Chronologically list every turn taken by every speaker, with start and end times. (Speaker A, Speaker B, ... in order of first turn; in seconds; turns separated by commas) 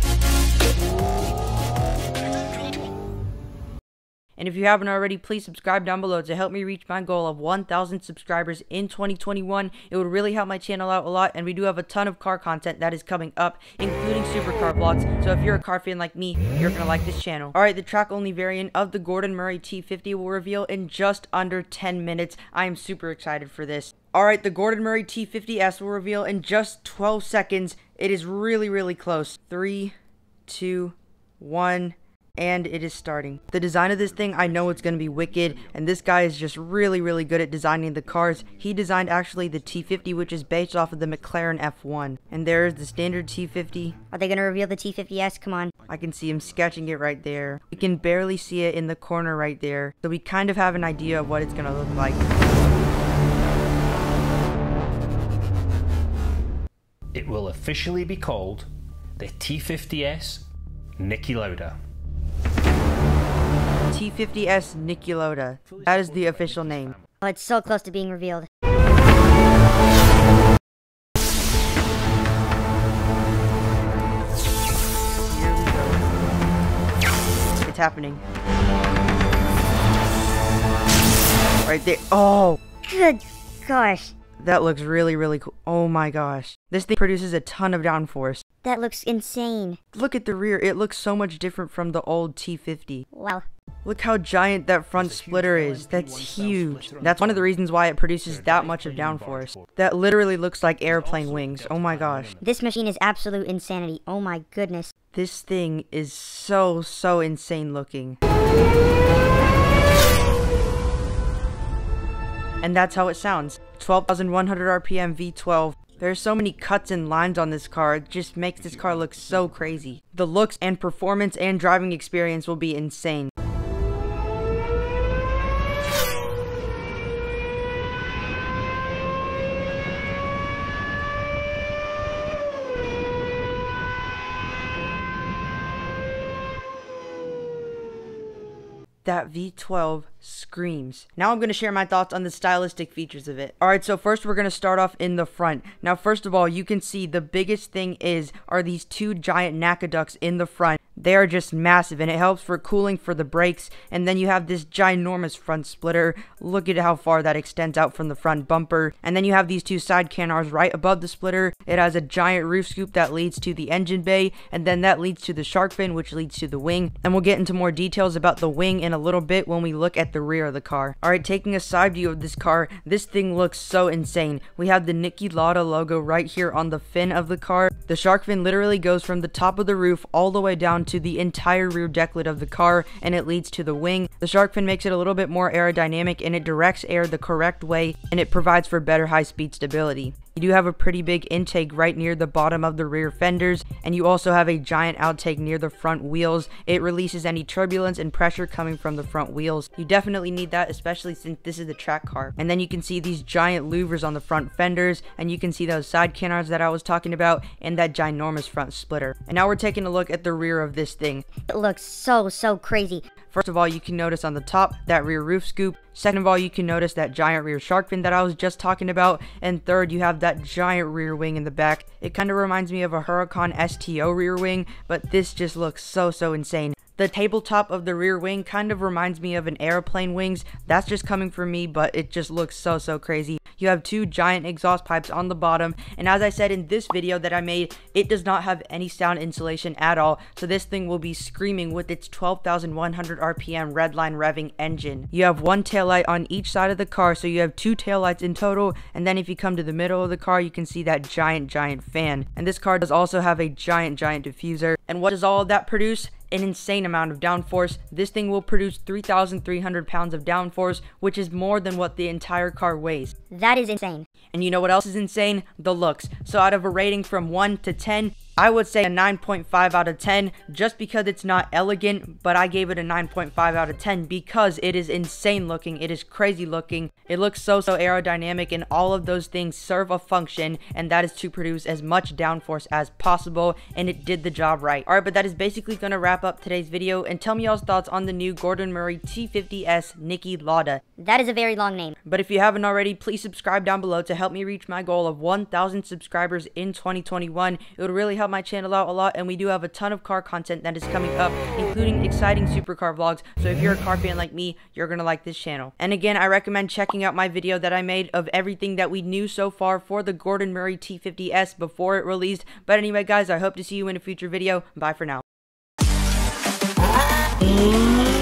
Speaker A: 4.4-29.9, Speaker A: 30.5-43.9, Speaker B: 44.1-45.7, Speaker A: 45.9-52.2, Speaker C: 57.1-60.5, Speaker C: 61.0-61.8, Speaker A: 63.9-67.0, Speaker C: 65.7-67.1, Speaker B: 67.2-68.5, Speaker A: 75.3-76.0, Speaker A: 77.6-78.2, Speaker A: 81.6-82.6, Speaker B: 82.8-84.1, Speaker A: 84.4-88.4, Speaker B: 88.6-89.8, Speaker A: 89.9-93.0, Speaker B: 93.1-93.4, Speaker A: 93.8-102.3, Speaker C: 94.9-97.5, Speaker C: 98.2-99.7, Speaker C: 100.9-102.6, Speaker B: 102.4-104.9, Speaker A: 105.1-108.2, Speaker A: 112.6-123.3, Speaker C: 118.6-119.8, Speaker A: 139.0-211.2, Speaker B: 211.5-213.0, Speaker A: 213.3-263.1, Speaker B: 263.3-264.1, Speaker A: 264.3-290.8, Speaker B: 291.0-291.9, Speaker A: 292.0-315.2